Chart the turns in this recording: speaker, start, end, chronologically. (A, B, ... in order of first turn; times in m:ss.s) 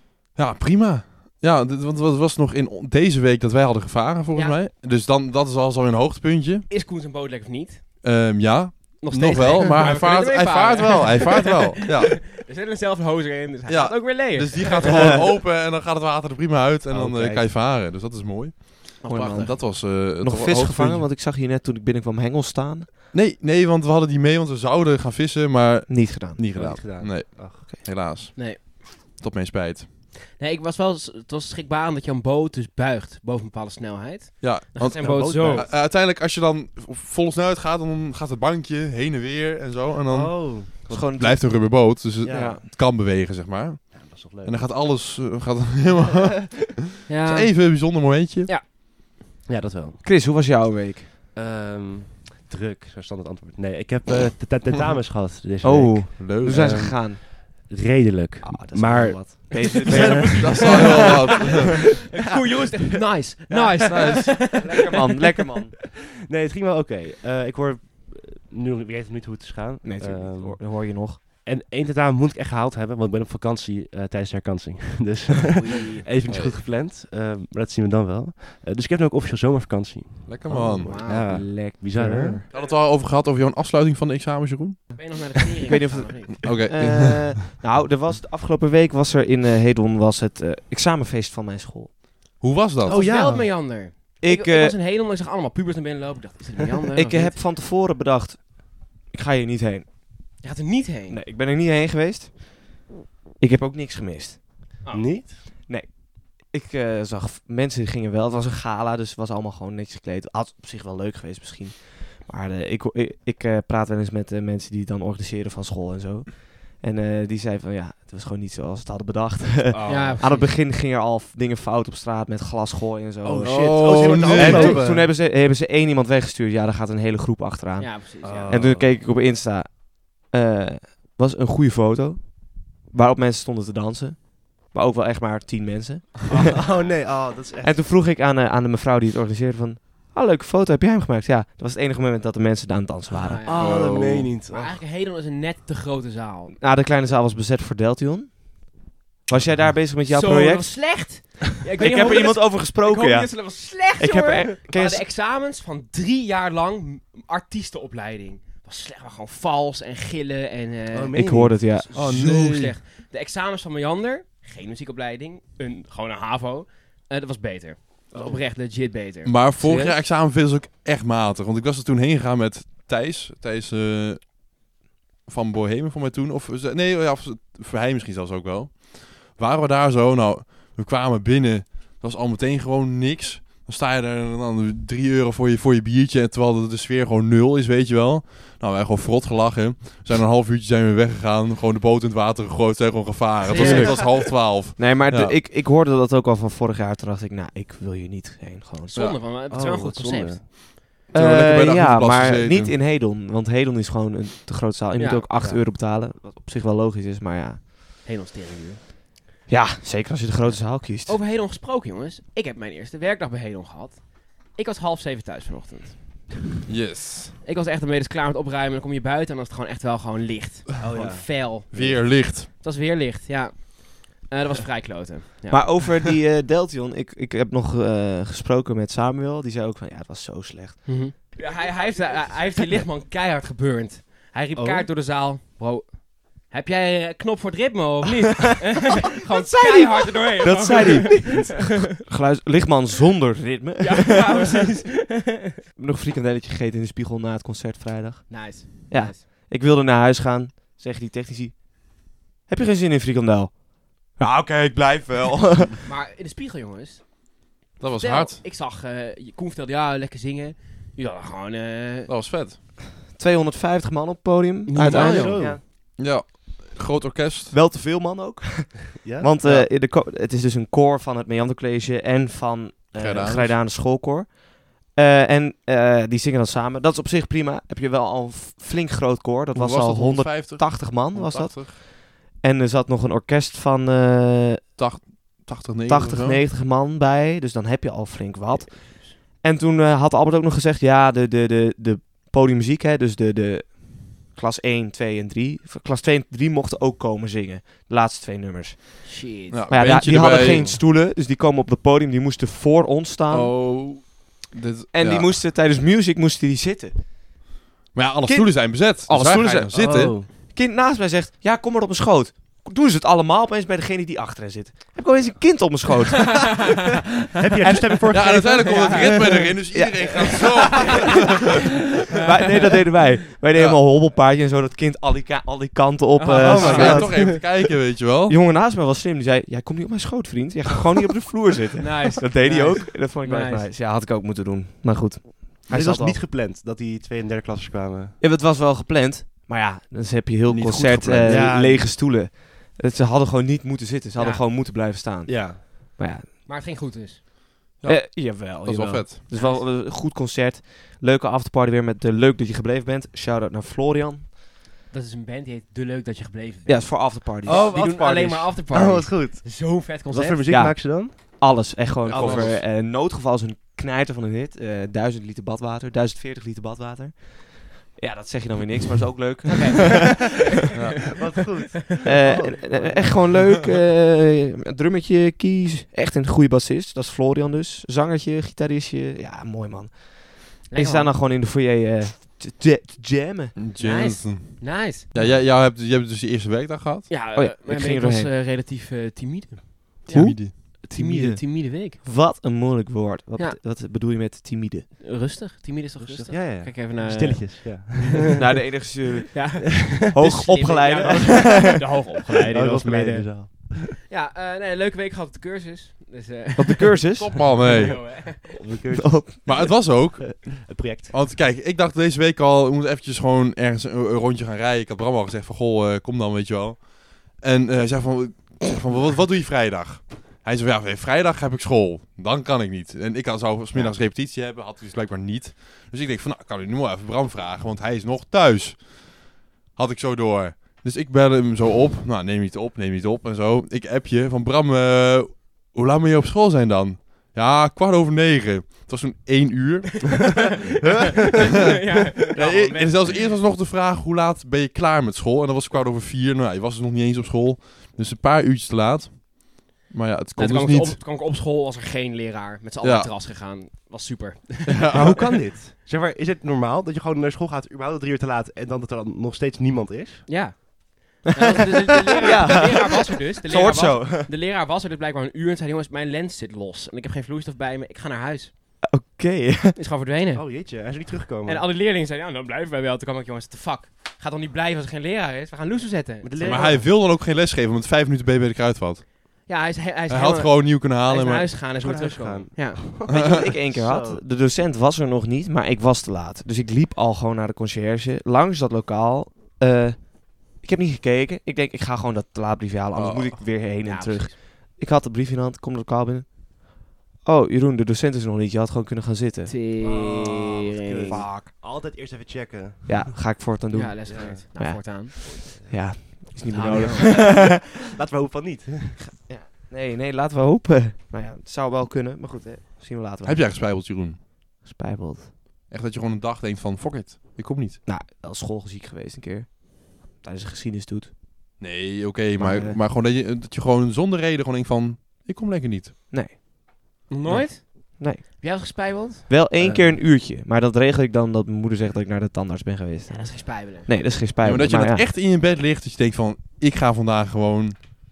0:00.3-0:06.6 A
0:04.3-0:04.6 B
0:06.7-0:07.8 B
0:08.0-0:12.3 A
0:09.0-0:15.1 B
0:13.7-0:21.1 A
0:16.9-0:17.5 C
0:19.0-0:19.3 B
0:19.1-0:22.9 D
0:23.1-0:29.9 A
0:25.9-0:26.4 D
0:26.5-0:27.6 C
0:28.3-0:28.6 B
0:30.3-0:35.7 B
0:34.4-0:48.5 A
0:35.0-0:35.7 C
0:40.1-0:41.0 C
0:40.8-0:41.5 D
0:42.2-0:42.6 C
0:42.3-0:42.6 D
0:43.9-0:44.7 C
0:47.1-0:48.6 B
0:49.5-0:50.0 C
0:50.0-0:51.1 D
0:51.3-1:01.0 C
0:55.6-0:57.2 D
0:56.2-0:56.8 A
0:58.4-1:01.2 D
0:59.8-1:05.3 B
1:00.4-1:01.9 A
1:03.5-1:04.6 C
1:04.5-1:05.8 D
1:06.2-1:22.4 C
1:09.8-1:11.2 D
1:15.6-1:16.1 B
1:16.2-1:16.6 A
1:20.2-1:21.0 A
1:20.8-1:22.8 B
1:21.9-1:22.4 D
1:22.5-1:25.0 A
1:24.9-1:26.4 B
1:25.7-1:32.0 D
1:26.4-1:27.3 A
1:32.4-1:33.0 A
1:32.9-1:33.5 C
1:32.9-1:37.4 B
1:34.2-1:34.8 D
1:37.0-1:39.9 D
1:40.4-1:41.2 B
1:41.1-1:42.6 D
1:43.4-1:44.4 D
1:44.8-1:45.1 B
1:44.9-1:45.4 C
1:45.6-2:16.5 D
1:59.7-2:00.2 C
1:59.9-2:00.5 B
2:03.2-2:05.1 C
2:03.4-2:04.9 A
2:07.8-2:08.7 B
2:08.2-2:08.9 C
2:16.3-2:17.8 C
2:16.6-2:16.9 B
2:17.6-2:23.4 D
2:23.2-2:23.9 B
2:23.4-2:24.7 C
2:23.6-2:24.3 A
2:24.5-2:26.6 B
2:26.6-2:31.0 D
2:30.0-2:49.4 B
2:31.8-2:35.0 D
2:40.9-2:41.6 C
2:41.1-2:41.9 D
2:41.9-2:42.7 A
2:48.1-2:48.4 C
2:49.2-2:54.3 A
2:49.6-2:49.9 D
2:55.2-3:15.4 A
3:13.4-3:14.2 B
3:13.5-3:19.0 D
3:18.9-3:20.4 B
3:19.5-3:20.5 C
3:21.1-3:27.6 D
3:21.1-3:22.7 A
3:25.0-3:25.3 B
3:28.0-3:28.8 B
3:29.5-3:31.2 D
3:30.5-3:36.2 B
3:36.7-3:37.3 A
3:37.4-3:45.8 B
3:40.8-3:41.2 C
3:41.7-3:42.5 A
3:45.5-3:50.9 D
3:50.8-4:01.6 B
3:51.5-3:52.6 D
3:54.6-3:54.9 C
4:00.4-4:01.6 C
4:00.4-4:04.6 D
4:03.8-4:05.3 B
4:05.8-4:15.8 D
4:08.3-4:09.2 B
4:15.8-4:17.1 B
4:17.8-4:18.4 A
4:18.0-4:22.1 B
4:22.1-4:22.6 A
4:23.0-4:25.6 D
4:24.7-4:25.5 B
4:24.9-4:25.6 C
4:26.0-4:27.5 A
4:27.5-4:44.7 D
4:29.0-4:29.7 C
4:32.9-4:33.6 A
4:39.5-4:41.8 A
4:44.8-4:46.4 A
4:45.9-4:59.1 D
4:48.5-4:49.2 B
4:59.0-4:59.6 B
4:59.5-5:00.8 A
4:59.7-5:03.5 D
5:00.5-5:00.7 C
5:03.3-5:05.4 A
5:04.9-5:07.1 D
5:07.9-5:10.2 A
5:08.2-5:16.8 D
5:09.7-5:10.3 C
5:17.4-5:19.5 C
5:18.1-5:21.4 A
5:18.6-5:19.1 B
5:19.7-5:21.0 D
5:22.1-5:27.4 D
5:22.1-5:22.4 B
5:23.5-5:23.8 A
5:26.2-5:27.1 B
5:26.4-5:27.4 C
5:26.5-5:28.4 A
5:28.3-5:36.2 D
5:31.8-5:33.7 B
5:35.7-5:38.2 C
5:38.2-5:46.3 D
5:40.4-5:41.5 A
5:41.2-5:41.9 C
5:44.2-5:44.4 B
5:45.2-5:45.6 C
5:46.4-5:47.2 B
5:47.8-5:49.2 A
5:47.8-5:54.3 D
5:49.3-5:49.6 B
5:54.9-6:00.4 B
5:56.6-5:57.7 D
5:57.4-6:02.6 C
6:00.5-6:10.2 D
6:02.1-6:02.5 A
6:09.5-6:10.8 B
6:10.7-6:11.1 A
6:11.1-6:13.3 C
6:12.0-6:23.6 D
6:20.7-6:21.1 B
6:23.6-6:27.1 A
6:23.8-6:25.1 B
6:27.1-6:32.0 B
6:27.3-6:28.3 D
6:30.1-6:34.9 D
6:30.1-6:30.5 A
6:35.0-6:38.4 B
6:36.0-6:38.4 C
6:38.4-6:41.7 D
6:39.3-6:48.6 B
6:42.5-6:43.9 C
6:46.6-6:47.4 D
6:47.2-6:48.0 A
6:48.5-6:51.1 C
6:49.0-6:49.6 D
6:49.4-7:20.7 A
7:20.1-7:23.3 B
7:22.1-7:31.0 A
7:30.4-7:34.9 B
7:32.8-7:33.1 A
7:34.6-7:35.4 A
7:34.9-7:40.3 C
7:40.3-7:48.5 B
7:42.1-7:44.3 D
7:48.8-7:49.8 D
7:49.7-7:50.8 B
7:50.3-7:51.6 C
7:51.4-7:56.7 B
7:56.2-7:56.9 C
7:56.4-7:59.1 A
7:59.4-8:02.8 B
8:00.1-8:01.5 A
8:01.8-8:04.2 C
8:03.1-8:20.1 D
8:12.9-8:13.4 A
8:13.8-8:14.4 B
8:19.4-8:21.2 B
8:19.8-8:23.1 C
8:21.1-8:21.5 D
8:22.9-8:27.5 D
8:23.7-8:25.4 B
8:24.1-8:24.4 C
8:25.3-8:25.9 C
8:26.5-8:27.4 B
8:26.9-8:29.0 C
8:29.0-8:33.5 D
8:33.2-8:34.2 A
8:34.6-8:35.3 D
8:35.7-8:37.8 A
8:37.8-8:41.1 D
8:41.6-8:45.9 A
8:42.4-8:42.8 D
8:46.1-8:46.3 D
8:47.1-8:49.3 B
8:48.0-8:48.5 D
8:49.3-8:55.1 D
8:49.6-8:49.9 C
8:53.1-8:53.9 B
8:54.4-8:57.8 A